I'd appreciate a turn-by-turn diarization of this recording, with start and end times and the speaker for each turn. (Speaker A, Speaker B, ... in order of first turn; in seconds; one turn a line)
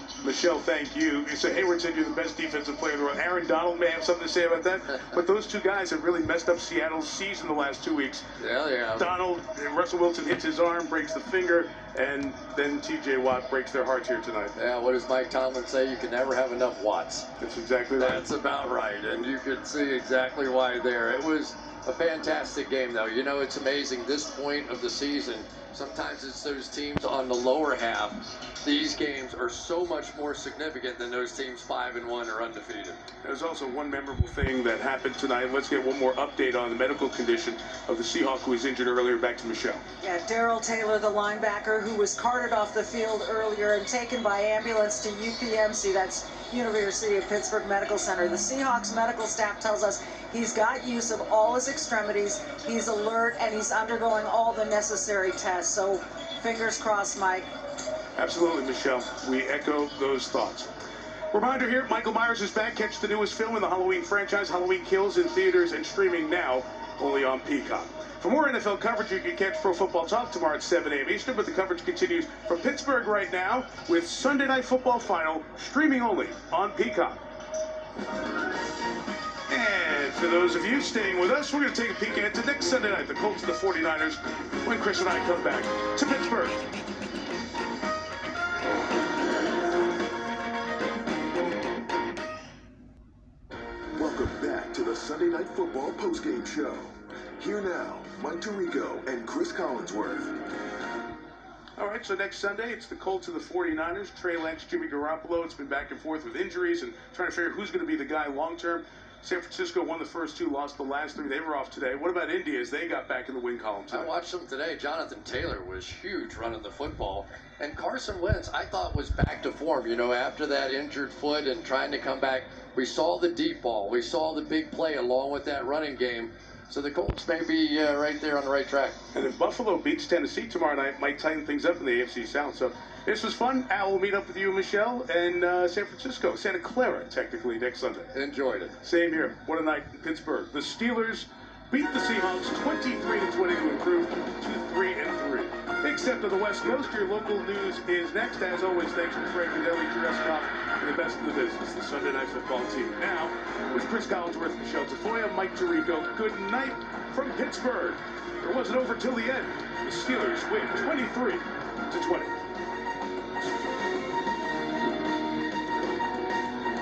Speaker A: 0.2-8.3
Speaker B: 8.4-9.1
Speaker A: 8.9-14.5
Speaker B: 14.6-17.3
Speaker A: 17.4-18.2
Speaker B: 18.0-33.0
Speaker A: 33.2-39.8
Speaker C: 40.0-57.5
Speaker A: 58.2-60.7
Speaker A: 61.3-77.2
Speaker A: 79.5-86.6
Speaker D: 93.9-100.3
Speaker A: 101.8-114.1
Speaker B: 113.9-129.0
Speaker A: 129.1-138.1
Speaker B: 138.1-138.8
Speaker A: 138.8-162.4